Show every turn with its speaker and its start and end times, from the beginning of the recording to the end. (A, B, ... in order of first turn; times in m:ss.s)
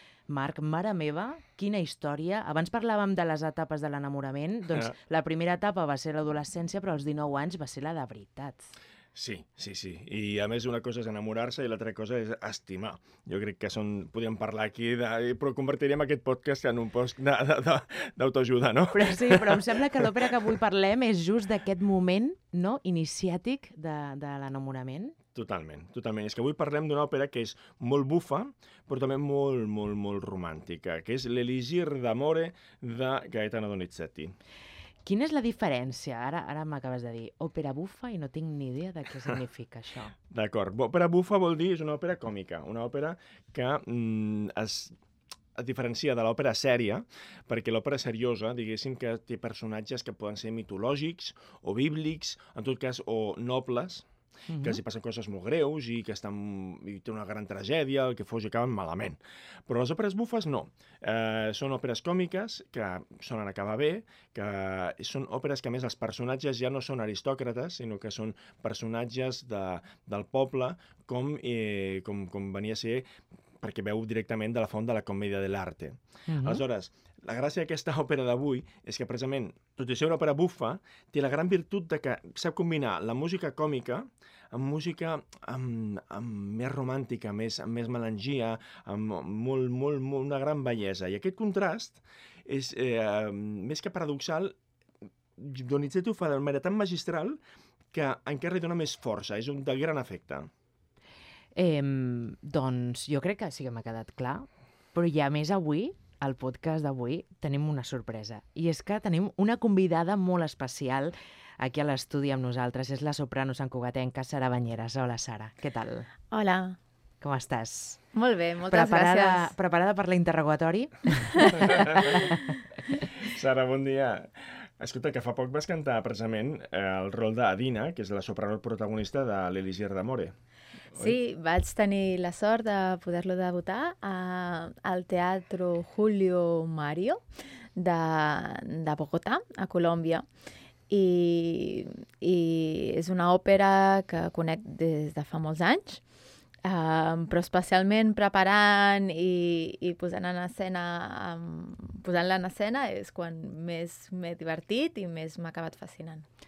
0:00.3-0:08.7 A
0:09.1-0:20.2 B
0:18.9-0:25.2 A
0:25.3-0:34.3 B
0:35.0-0:40.1 A
0:40.3-0:44.9 B
0:45.6-0:54.1 B
0:54.5-0:54.8 A
0:54.6-1:13.1 B
1:13.6-1:34.6 B
1:16.3-1:16.6 A
1:35.4-1:37.4 B
1:37.9-1:40.5 B
1:41.5-1:56.1 A
1:56.3-1:56.8 C
1:57.2-1:58.0 A
1:58.1-1:59.5 C
1:58.7-2:02.4 A
2:01.4-2:01.7 C
2:01.6-2:02.2 B
2:02.9-2:10.3 B
2:10.9-2:17.2 C
2:17.8-2:20.2 C
2:20.9-2:26.0 C
2:26.6-2:36.2 C